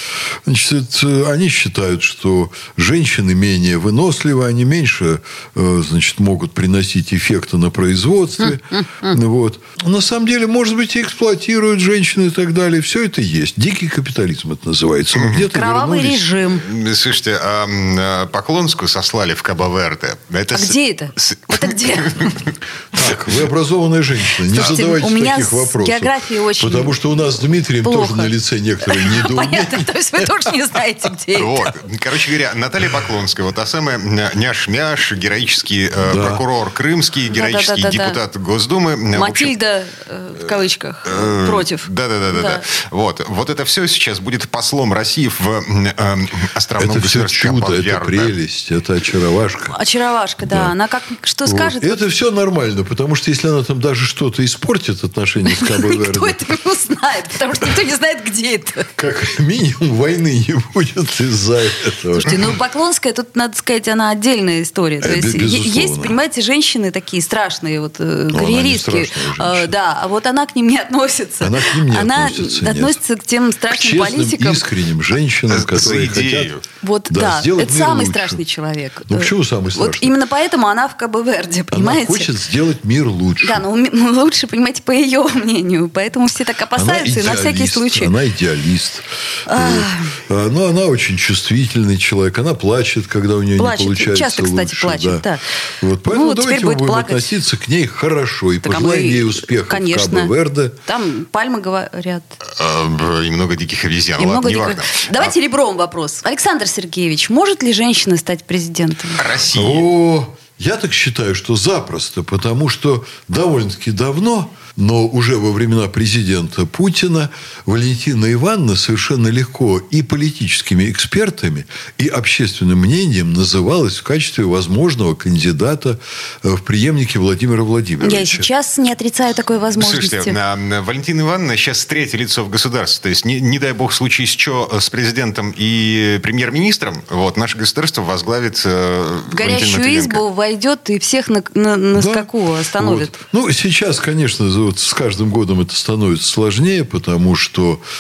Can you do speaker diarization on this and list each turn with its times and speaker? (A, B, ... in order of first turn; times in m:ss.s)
0:00.5-0:16.2 A
0:08.4-0:09.2 B
0:15.2-0:15.4 C
0:15.5-0:16.6 B
0:16.4-0:23.4 C
0:20.5-0:22.4 B
0:22.9-0:30.5 A
0:24.5-0:27.0 B
0:27.8-0:31.7 B
0:31.4-0:39.5 C
0:36.0-0:36.4 A
0:37.3-0:38.2 B
0:39.1-0:42.6 B
0:41.0-0:48.4 C
0:46.8-0:49.8 A
0:49.7-0:52.0 B
0:50.4-0:50.8 A
0:51.4-0:56.5 A
0:55.4-0:58.9 B
0:59.0-1:02.6 A
1:02.2-1:14.6 B
1:05.0-1:06.2 A
1:08.3-1:09.7 A
1:11.4-1:13.0 A
1:13.7-1:16.5 A
1:15.5-1:16.6 C
1:16.8-1:22.3 B
1:17.1-1:18.4 A
1:19.1-1:20.2 A
1:21.7-1:23.6 A
1:23.4-1:28.1 B
1:26.7-1:35.3 A
1:29.5-1:30.2 B
1:33.6-1:35.5 B
1:35.8-1:40.8 A
1:36.1-1:37.4 B
1:38.6-1:40.3 B
1:40.8-1:42.4 B
1:42.4-1:45.3 C
1:44.2-1:49.2 B
1:49.2-1:49.9 C
1:49.5-2:08.5 A
2:08.0-2:10.4 B
2:09.8-2:20.2 C
2:19.3-2:23.2 B
2:22.0-2:27.8 A